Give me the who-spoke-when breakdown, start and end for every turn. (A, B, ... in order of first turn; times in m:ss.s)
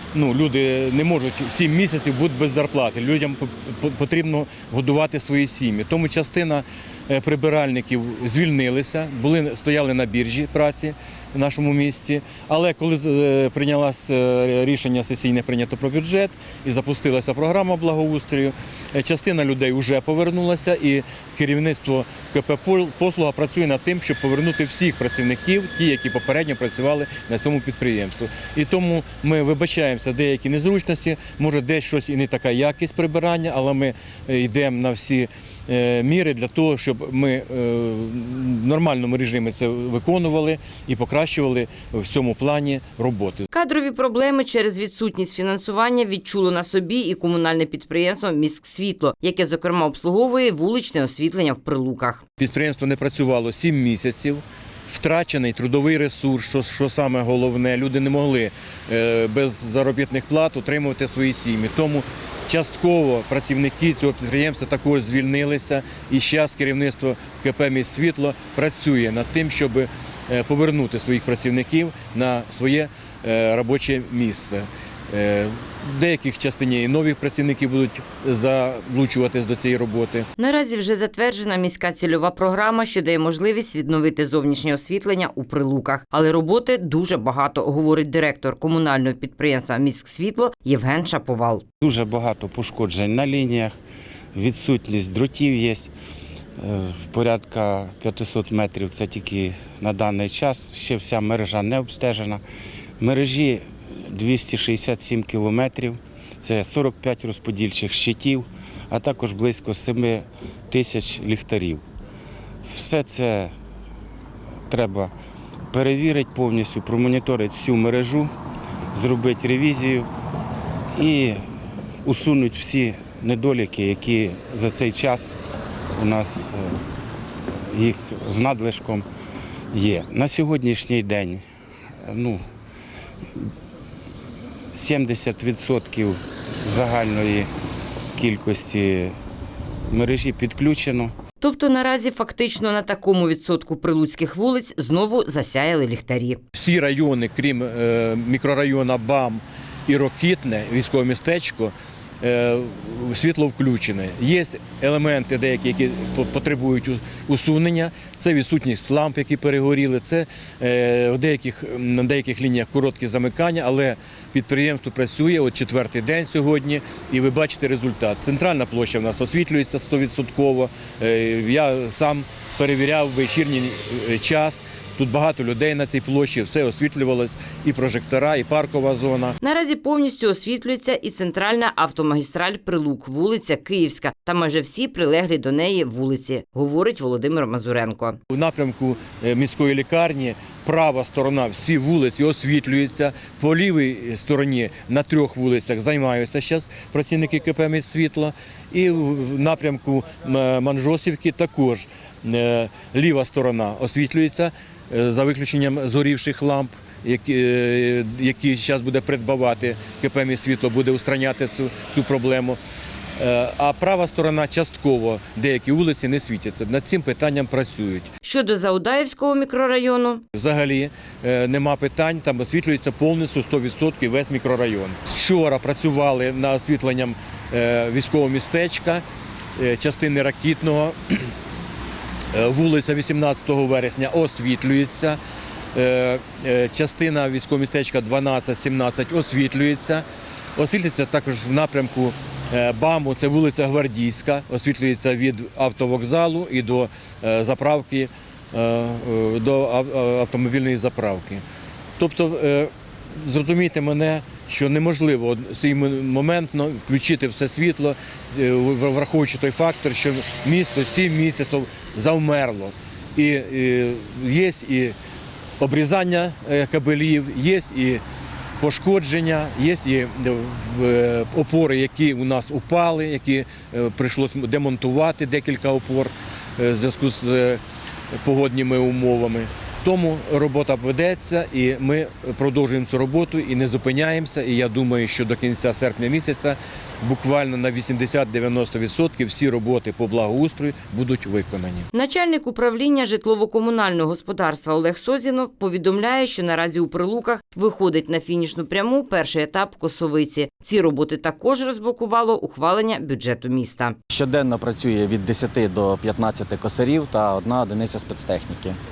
0:00.1-0:43.4 A
0:43.5-0:52.2 B
0:52.4-1:20.3 A
1:20.4-1:31.6 B
1:31.8-1:33.7 C
1:34.3-1:35.9 C
1:36.6-1:42.4 C
1:43.0-1:51.8 C
1:52.7-1:53.5 C
1:54.7-1:55.1 C
1:55.7-1:58.3 C
1:58.9-2:00.1 C
2:00.9-2:01.4 C
2:02.0-2:05.4 C
2:05.9-2:06.8 C
2:07.6-2:09.1 C
2:09.7-2:11.4 C
2:12.0-2:12.4 C
2:14.7-2:17.5 C
2:18.2-2:19.1 C
2:19.9-2:21.1 C
2:21.4-2:26.4 B
2:26.5-2:59.4 A
2:59.4-3:08.2 B
3:08.3-3:32.6 A
3:33.2-3:38.1 A
3:38.2-3:40.2 B
3:40.3-3:49.0 A
3:49.6-3:51.3 A
3:52.3-3:55.2 A
3:55.7-4:00.0 A
4:00.6-4:11.4 A
4:12.0-4:24.9 A
4:25.6-4:28.0 A
4:28.6-4:37.6 A
4:38.2-4:51.9 A
4:51.9-5:03.9 B
5:04.1-5:08.8 D